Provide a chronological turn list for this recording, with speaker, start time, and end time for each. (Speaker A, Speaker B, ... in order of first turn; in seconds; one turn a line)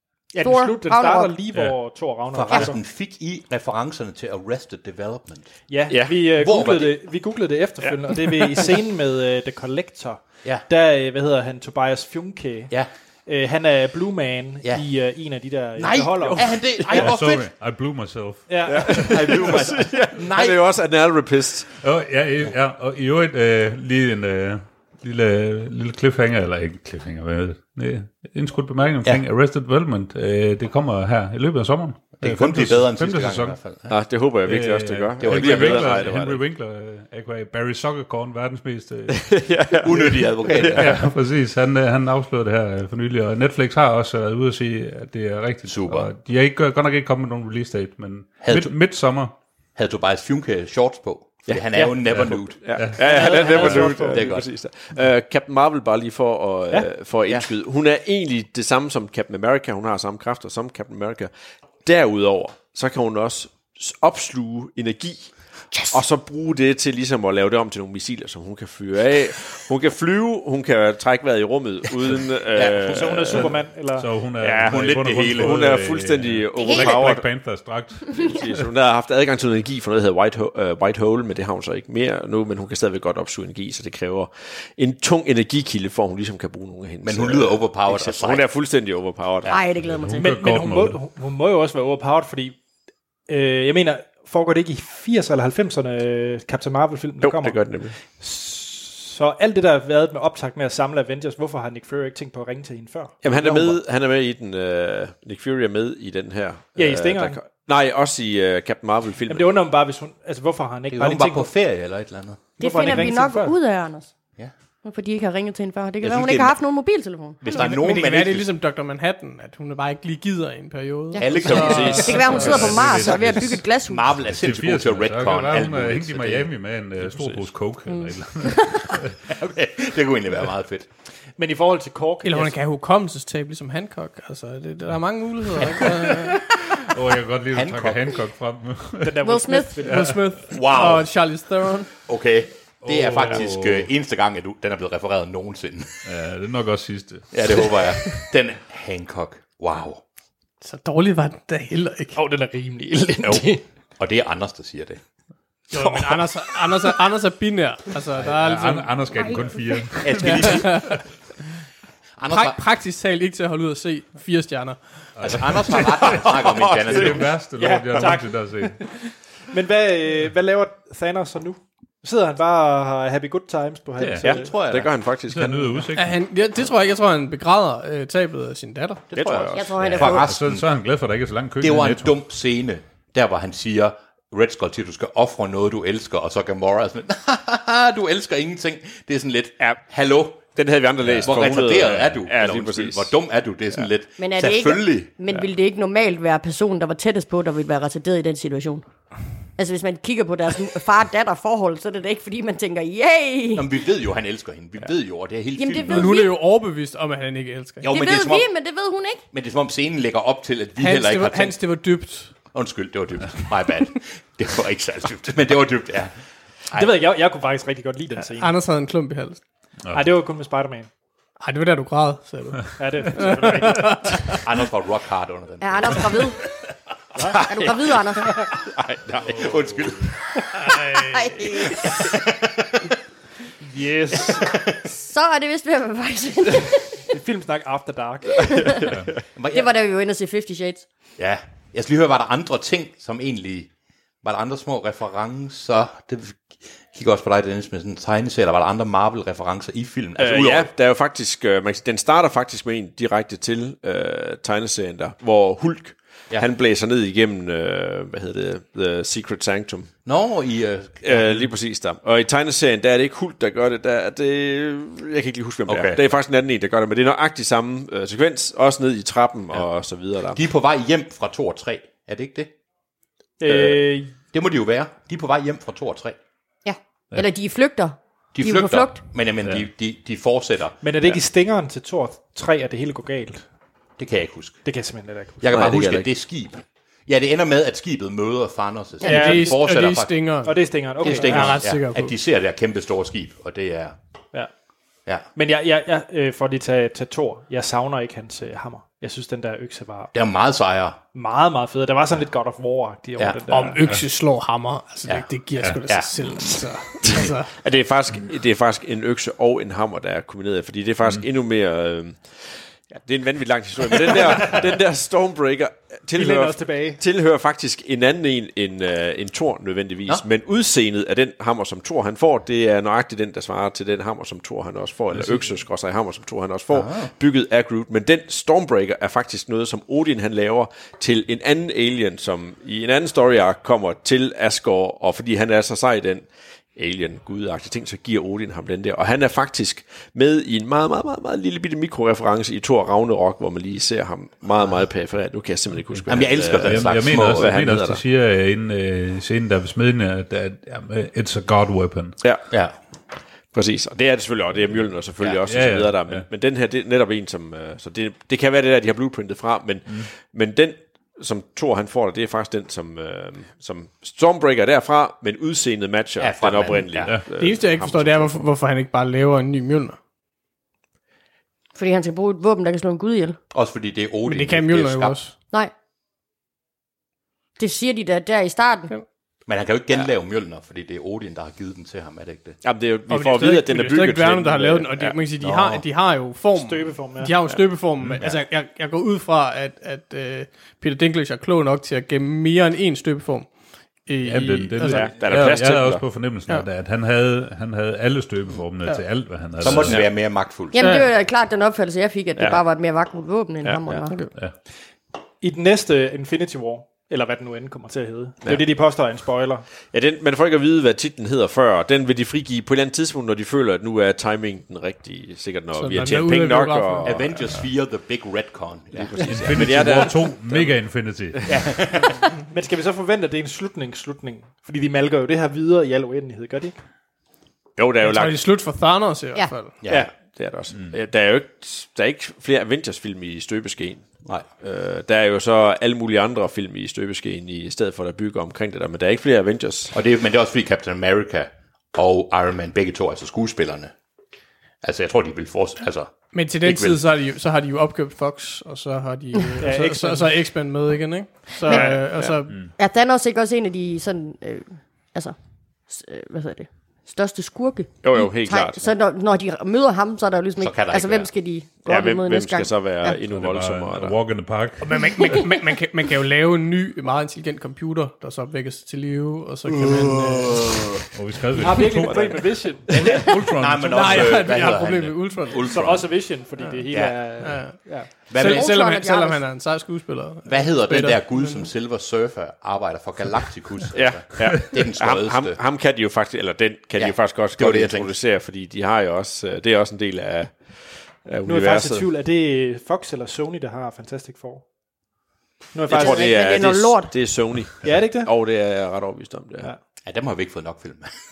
Speaker A: 0.3-2.8
Speaker B: 0.4-1.3
Speaker C: 2.3-5.5
Speaker A: 5.7-12.7
Speaker D: 5.9-6.2
Speaker C: 6.4-7.0
Speaker A: 13.3-17.1
Speaker C: 15.8-17.5
Speaker E: 16.9-18.6
Speaker A: 18.5-19.6
Speaker D: 18.7-21.7
Speaker C: 19.1-20.6
Speaker E: 21.8-33.6
Speaker C: 32.2-33.9
Speaker D: 33.9-36.4
Speaker E: 34.5-39.4
Speaker C: 35.2-36.2
Speaker D: 39.1-41.0
Speaker C: 39.8-41.1
Speaker E: 40.7-49.3
Speaker C: 45.7-46.1
Speaker C: 48.4-48.7
Speaker C: 49.8-54.5
Speaker D: 51.5-61.3
Speaker E: 52.1-53.8
Speaker A: 53.0-54.4
Speaker D: 61.9-73.5
Speaker C: 72.5-73.5
Speaker A: 72.9-74.2
Speaker E: 73.9-78.6
Speaker D: 74.4-77.3
Speaker C: 74.6-75.7
Speaker B: 76.6-77.0
Speaker D: 78.1-89.6
Speaker C: 87.0-88.5
Speaker B: 89.5-90.4
Speaker E: 89.8-91.0
Speaker A: 90.2-92.6
Speaker A: 93.3-103.7
Speaker D: 97.2-98.0
Speaker D: 103.2-109.5
Speaker A: 106.8-107.5
Speaker A: 109.3-111.5
Speaker C: 110.9-113.1
Speaker A: 112.6-113.6
Speaker B: 112.6-114.1
Speaker B: 114.8-117.7
Speaker C: 116.0-116.6
Speaker C: 117.4-118.5
Speaker F: 117.5-122.7
Speaker B: 121.1-124.1
Speaker C: 121.2-126.5
Speaker D: 121.5-123.0
Speaker E: 122.3-123.6
Speaker E: 124.3-129.2
Speaker B: 127.9-128.9
Speaker C: 129.3-130.9
Speaker A: 131.4-132.6
Speaker F: 132.2-136.4
Speaker E: 136.8-139.2
Speaker C: 137.5-138.2
Speaker A: 139.0-140.2
Speaker B: 139.2-139.8
Speaker F: 139.8-141.9
Speaker C: 140.5-141.1
Speaker C: 142.1-146.0
Speaker E: 142.8-143.9
Speaker E: 146.1-147.8
Speaker C: 147.3-150.0
Speaker F: 150.6-152.2
Speaker A: 152.2-153.6
Speaker C: 153.2-155.0
Speaker F: 155.7-159.4
Speaker A: 155.7-156.2
Speaker E: 158.2-161.0
Speaker C: 160.0-161.0
Speaker F: 160.2-161.0
Speaker C: 162.2-162.6
Speaker F: 162.3-165.8
Speaker E: 165.2-168.8
Speaker C: 165.2-167.3
Speaker D: 166.4-167.2
Speaker A: 167.5-174.5
Speaker E: 174.0-174.3
Speaker D: 174.2-175.9
Speaker C: 174.2-174.9
Speaker E: 175.3-176.2
Speaker F: 175.9-179.1
Speaker C: 179.1-180.7
Speaker D: 179.1-179.8
Speaker B: 179.5-180.3
Speaker E: 179.8-182.2
Speaker C: 181.6-190.6
Speaker D: 190.6-193.2
Speaker E: 191.0-192.0
Speaker C: 191.2-195.1
Speaker B: 194.2-198.9
Speaker B: 199.6-203.7
Speaker C: 203.6-206.2
Speaker B: 205.6-206.3
Speaker F: 205.9-207.9
Speaker C: 207.8-208.5
Speaker B: 207.9-209.2
Speaker C: 209.3-211.6
Speaker F: 210.8-212.3
Speaker C: 212.5-216.2
Speaker C: 216.7-217.0
Speaker A: 216.7-218.6
Speaker F: 218.4-219.4
Speaker E: 219.9-220.1
Speaker A: 219.9-220.9
Speaker F: 221.4-224.4
Speaker A: 222.8-224.3
Speaker C: 224.4-226.3
Speaker B: 225.6-226.4
Speaker A: 227.2-227.5
Speaker C: 227.3-230.2
Speaker B: 227.4-228.3
Speaker E: 229.4-229.8
Speaker B: 231.0-232.1
Speaker C: 231.6-232.9
Speaker A: 233.6-234.5
Speaker C: 234.3-234.8
Speaker B: 234.8-237.1
Speaker A: 237.1-238.9
Speaker B: 238.4-238.8
Speaker C: 239.3-239.7
Speaker B: 239.5-240.9
Speaker C: 241.2-243.7
Speaker C: 244.2-250.7
Speaker D: 250.2-259.9
Speaker C: 260.1-261.5
Speaker D: 261.0-270.4
Speaker C: 265.7-266.0
Speaker C: 270.3-272.5
Speaker A: 273.4-274.2
Speaker D: 273.5-273.8
Speaker C: 274.3-276.2
Speaker B: 276.6-279.0
Speaker C: 278.4-280.8
Speaker A: 280.8-283.4
Speaker C: 284.0-284.6
Speaker A: 284.6-285.6
Speaker C: 285.4-290.1
Speaker D: 285.5-286.1
Speaker F: 289.0-292.1
Speaker A: 289.0-289.7
Speaker A: 290.4-291.6
Speaker C: 291.0-293.9
Speaker A: 295.4-300.1
Speaker C: 300.1-301.0
Speaker A: 301.1-303.8
Speaker F: 303.5-307.5
Speaker C: 305.9-306.1
Speaker D: 307.5-348.0
Speaker A: 316.1-317.0
Speaker C: 326.7-327.1
Speaker C: 346.1-347.6
Speaker E: 346.6-352.2
Speaker D: 352.2-352.5
Speaker D: 353.5-368.4
Speaker E: 355.5-356.3
Speaker C: 366.2-367.1
Speaker F: 367.4-370.0
Speaker B: 371.8-373.4
Speaker C: 373.5-375.2
Speaker F: 374.3-375.4
Speaker B: 377.6-378.9
Speaker C: 379.5-382.6
Speaker D: 382.6-385.2
Speaker F: 383.1-395.1
Speaker C: 385.4-385.9
Speaker A: 386.6-387.6
Speaker E: 394.2-400.0
Speaker D: 394.8-396.1
Speaker C: 399.6-401.0
Speaker D: 399.7-400.1
Speaker B: 400.7-404.3
Speaker F: 400.8-401.1
Speaker D: 402.4-402.6
Speaker D: 403.6-404.1
Speaker A: 405.4-409.6
Speaker D: 409.9-417.3
Speaker F: 415.8-417.4
Speaker C: 417.0-420.0
Speaker D: 418.9-421.6
Speaker E: 419.3-421.7
Speaker C: 421.5-422.2
Speaker A: 422.0-426.8
Speaker D: 427.8-428.4
Speaker F: 428.0-429.7
Speaker C: 429.8-430.1
Speaker D: 429.9-440.0
Speaker C: 439.9-443.9
Speaker C: 444.8-447.0
Speaker F: 446.3-452.6
Speaker A: 449.6-450.4
Speaker B: 451.6-451.9
Speaker D: 451.7-452.4
Speaker B: 452.8-455.4
Speaker B: 455.9-463.2
Speaker D: 458.0-458.9
Speaker C: 460.6-461.3
Speaker D: 461.9-464.4
Speaker E: 463.3-465.1
Speaker F: 464.8-470.7
Speaker E: 471.1-474.5
Speaker A: 471.5-473.3
Speaker D: 471.8-472.4
Speaker C: 472.9-476.3
Speaker F: 473.9-475.8
Speaker A: 475.6-478.3
Speaker C: 476.9-478.7
Speaker F: 477.4-481.7
Speaker B: 478.3-479.4
Speaker C: 480.5-485.6
Speaker D: 483.9-492.1
Speaker C: 486.9-488.1
Speaker A: 491.4-494.6
Speaker A: 495.7-496.4
Speaker B: 495.9-497.2
Speaker D: 495.9-499.7
Speaker A: 497.8-498.3
Speaker C: 500.0-501.1